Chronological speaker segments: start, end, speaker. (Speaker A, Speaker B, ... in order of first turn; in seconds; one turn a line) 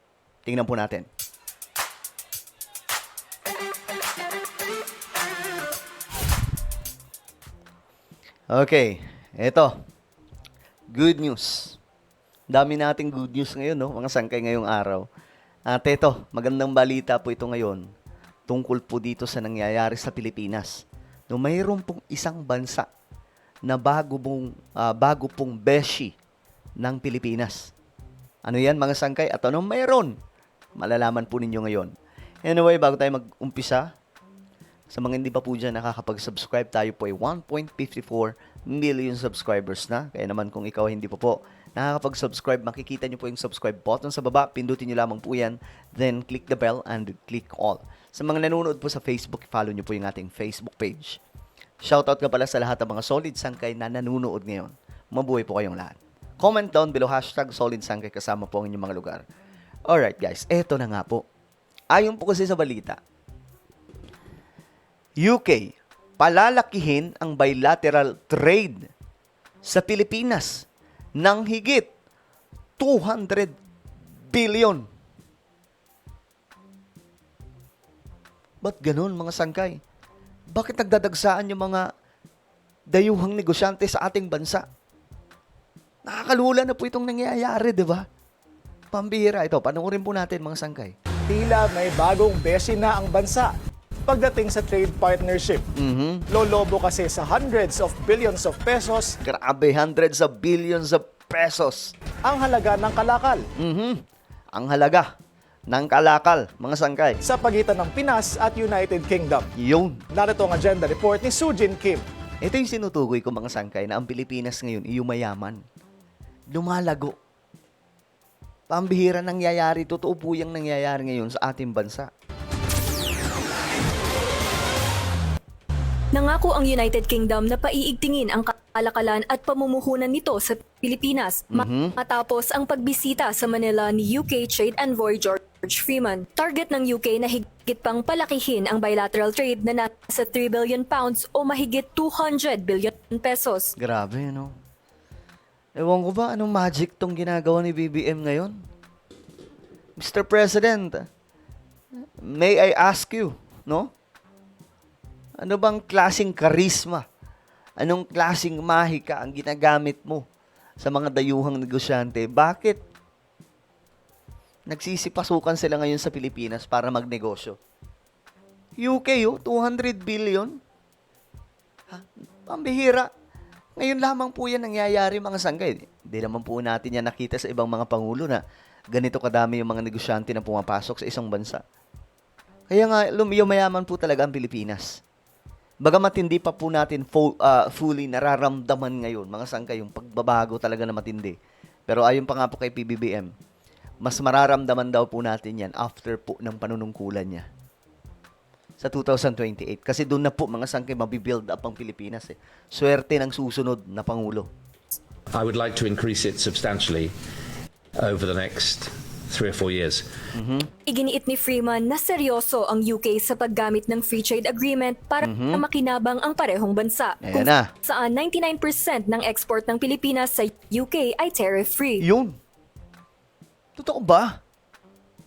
Speaker A: 0.4-1.1
Speaker A: 8.5-9.7
Speaker A: 10.9-11.8
Speaker A: 12.5-15.1
Speaker A: 15.7-17.9
Speaker A: 18.5-22.9
Speaker A: 23.6-26.1
Speaker A: 26.8-27.7
Speaker A: 28.4-30.2
Speaker A: 30.8-31.9
Speaker A: 32.4-33.9
Speaker A: 34.9-51.2
Speaker A: 51.8-59.2
Speaker A: 59.9-61.2
Speaker A: 61.9-63.0
Speaker A: 65.2-68.9
Speaker A: 69.6-70.7
Speaker A: 71.2-71.9
Speaker A: 72.8-73.5
Speaker A: 74.3-74.9
Speaker A: 78.6-79.8
Speaker A: 80.5-81.9
Speaker A: 82.9-84.6
Speaker A: 86.0-88.0
Speaker A: 88.9-90.9
Speaker B: 91.3-93.5
Speaker B: 94.0-95.6
Speaker A: 95.7-96.2
Speaker B: 96.3-99.2
Speaker A: 99.2-101.9
Speaker B: 102.2-103.4
Speaker A: 103.6-104.0
Speaker A: 104.5-105.1
Speaker A: 105.7-107.2
Speaker B: 107.2-109.5
Speaker A: 109.6-110.0
Speaker B: 110.1-112.0
Speaker A: 112.4-115.6
Speaker A: 116.5-117.2
Speaker A: 118.7-122.1
Speaker C: 126.1-143.7
Speaker A: 131.5-131.9
Speaker A: 143.8-144.5
Speaker A: 145.8-148.6
Speaker A: 150.0-151.1
Speaker A: 152.2-153.9
Speaker A: 155.4-157.0
Speaker A: 157.8-160.2
Speaker A: 160.8-162.8
Speaker A: 164.7-167.6
Speaker A: 168.8-170.6
Speaker A: 171.9-173.1
Speaker A: 173.8-181.6
Speaker A: 182.7-185.0
Speaker A: 185.8-191.4
Speaker A: 191.9-193.3
Speaker A: 194.0-197.4
Speaker A: 198.8-204.5
Speaker D: 205.3-207.1
Speaker D: 207.9-210.0
Speaker A: 210.3-210.7
Speaker C: 210.9-222.0
Speaker A: 215.2-215.6
Speaker A: 217.2-217.7
Speaker A: 222.0-222.4
Speaker A: 223.8-224.4